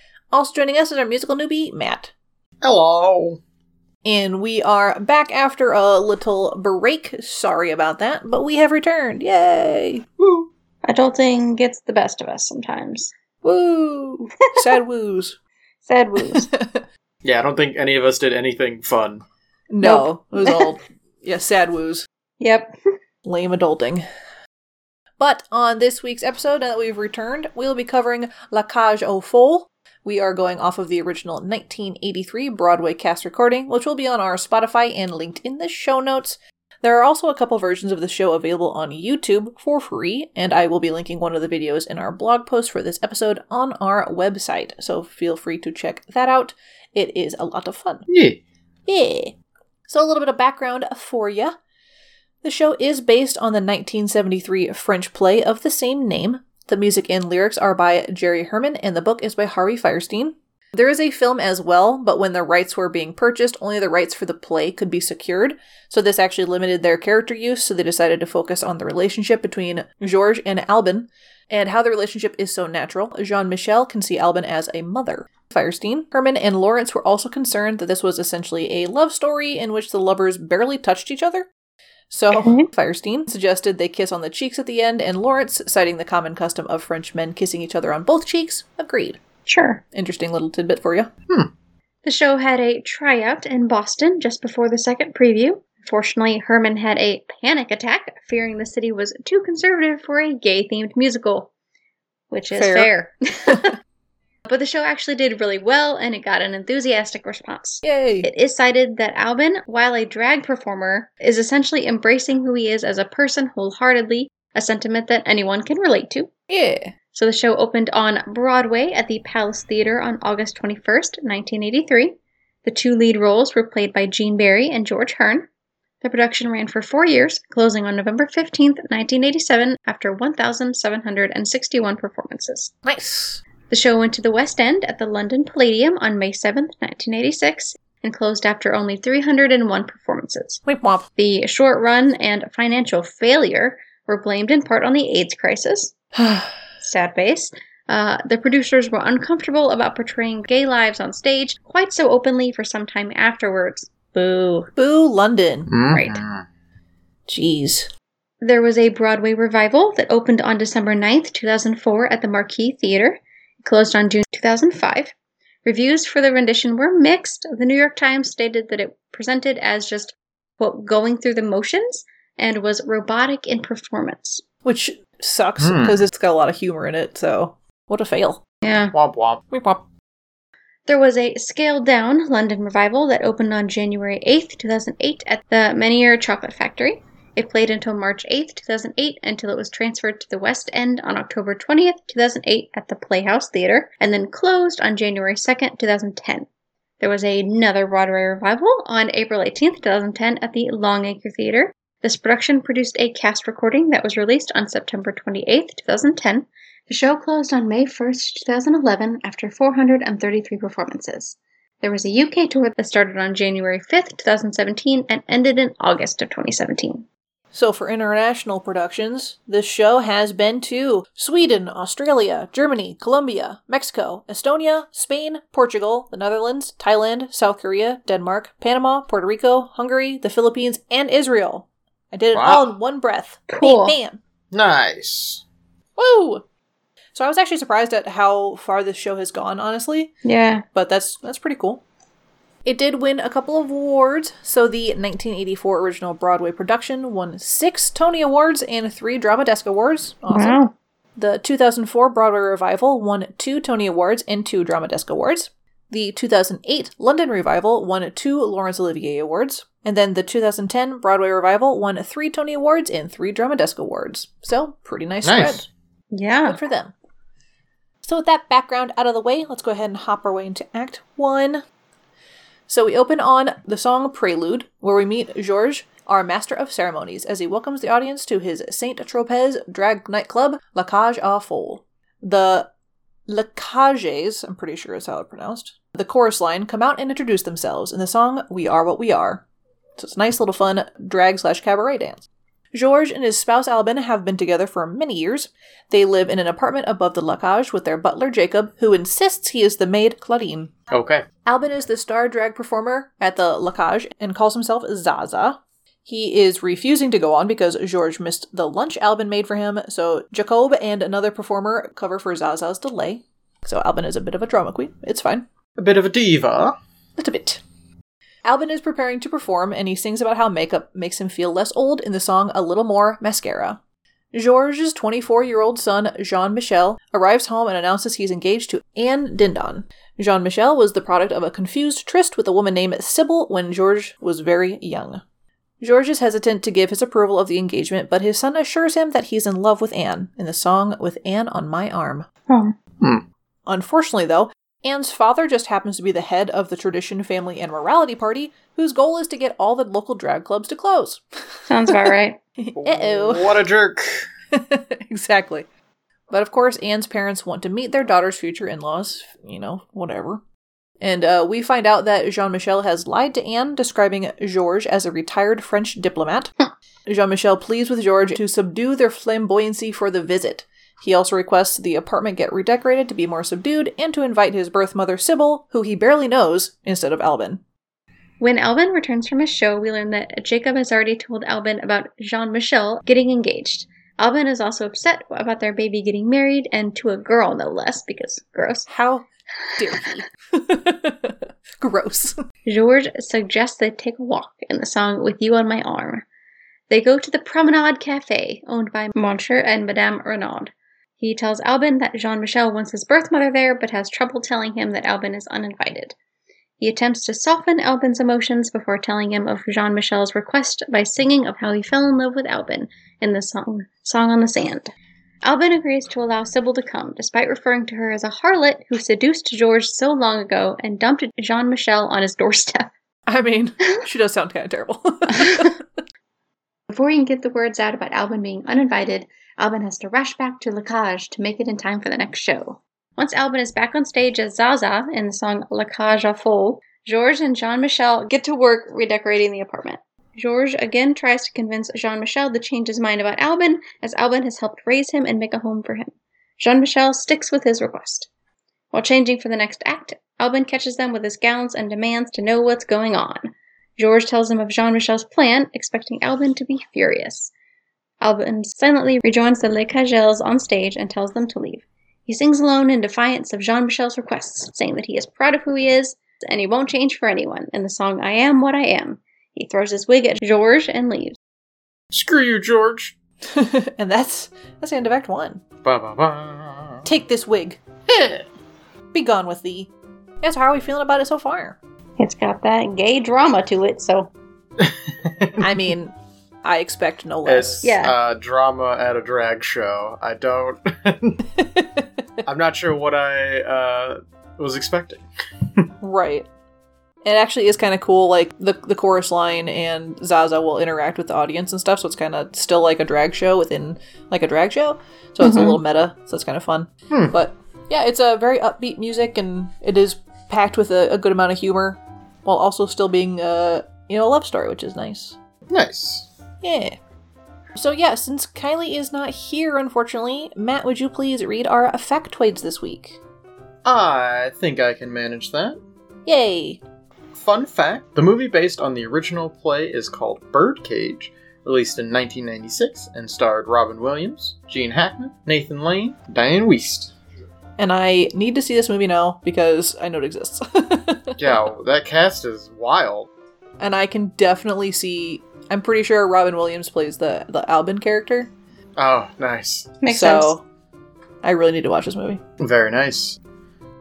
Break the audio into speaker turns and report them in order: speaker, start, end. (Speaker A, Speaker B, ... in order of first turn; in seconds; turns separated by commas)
Speaker A: 0.3-2.1, Speaker B: 2.6-3.4, Speaker A: 4.0-10.1, Speaker B: 10.2-10.5, Speaker C: 10.8-13.1, Speaker A: 13.4-15.4, Speaker C: 15.8-16.5, Speaker A: 16.3-16.9, Speaker B: 17.2-19.2, Speaker A: 19.7-22.1, Speaker C: 19.8-20.7, Speaker C: 22.4-22.8, Speaker A: 23.2-24.0, Speaker A: 25.2-48.0, Speaker B: 48.1-48.4, Speaker A: 48.9-49.4, Speaker A: 49.9-51.5, Speaker A: 52.4-81.5, Speaker A: 82.1-89.2, Speaker C: 82.3-82.7, Speaker C: 89.5-89.8, Speaker A: 89.9-91.1, Speaker C: 92.0-101.5, Speaker C: 102.3-103.7, Speaker A: 102.5-102.9, Speaker C: 104.5-116.3, Speaker A: 107.8-108.3, Speaker A: 116.5-116.9, Speaker C: 117.1-125.5, Speaker C: 126.0-132.7, Speaker A: 132.8-133.4, Speaker C: 133.7-140.6, Speaker A: 140.7-141.1, Speaker C: 141.2-145.9, Speaker A: 146.2-146.6, Speaker C: 146.8-154.7, Speaker A: 154.8-155.7, Speaker B: 155.7-156.5, Speaker C: 155.9-156.2, Speaker A: 157.3-157.9, Speaker C: 158.4-174.4, Speaker A: 174.7-178.4, Speaker B: 175.6-176.0, Speaker C: 178.6-178.9, Speaker B: 178.9-179.4, Speaker A: 179.5-179.8, Speaker C: 180.9-196.5, Speaker C: 197.0-217.1, Speaker A: 217.5-234.2, Speaker B: 232.3-232.7, Speaker C: 233.5-234.0, Speaker B: 234.5-235.4, Speaker A: 236.0-236.4, Speaker A: 237.1-240.1, Speaker C: 240.2-240.7, Speaker A: 240.7-241.8, Speaker A: 242.7-250.6, Speaker C: 250.3-250.7, Speaker A: 251.2-265.6, Speaker B: 265.2-265.7, Speaker C: 266.1-266.6, Speaker A: 266.5-266.9, Speaker A: 268.0-271.6, Speaker A: 272.7-282.7, Speaker A: 283.3-289.4, Speaker A: 290.0-300.7, Speaker B: 300.9-301.2, Speaker A: 301.5-315.5, Speaker B: 315.8-316.8, Speaker A: 317.2-317.6, Speaker A: 318.4-323.8, Speaker A: 324.3-335.2, Speaker A: 335.8-342.3, Speaker A: 343.7-352.1, Speaker C: 351.7-352.4, Speaker A: 352.6-353.6, Speaker B: 352.8-354.2, Speaker A: 354.5-355.6, Speaker A: 356.3-360.4, Speaker A: 361.0-366.5, Speaker A: 367.1-377.6, Speaker C: 378.4-388.9, Speaker A: 388.9-392.4, Speaker C: 392.7-396.2, Speaker C: 396.9-406.2, Speaker C: 406.8-414.9, Speaker C: 415.4-422.9, Speaker A: 423.3-425.8, Speaker C: 425.3-425.7, Speaker C: 426.9-448.3, Speaker C: 448.9-453.4, Speaker C: 454.0-457.5, Speaker C: 458.2-471.4, Speaker B: 472.1-473.2, Speaker A: 473.5-475.6, Speaker B: 475.8-477.1, Speaker A: 477.1-477.8, Speaker B: 478.1-478.4, Speaker A: 479.1-479.9, Speaker A: 480.4-481.8, Speaker C: 482.2-484.3, Speaker B: 484.8-485.6, Speaker A: 485.6-488.0, Speaker B: 487.5-491.5, Speaker C: 487.8-488.2, Speaker A: 491.6-492.1, Speaker B: 492.4-495.2, Speaker A: 496.0-496.5, Speaker A: 497.2-515.4, Speaker C: 505.4-505.8, Speaker B: 507.1-507.4, Speaker B: 515.7-516.3, Speaker A: 516.6-517.0, Speaker A: 517.8-523.2, Speaker B: 523.9-525.8, Speaker A: 526.3-526.8, Speaker B: 527.3-537.1, Speaker A: 537.8-541.6, Speaker B: 541.4-543.3, Speaker A: 543.8-548.5, Speaker B: 549.0-550.0, Speaker C: 550.0-550.5, Speaker A: 550.1-550.6, Speaker A: 551.4-552.4, Speaker B: 552.6-553.4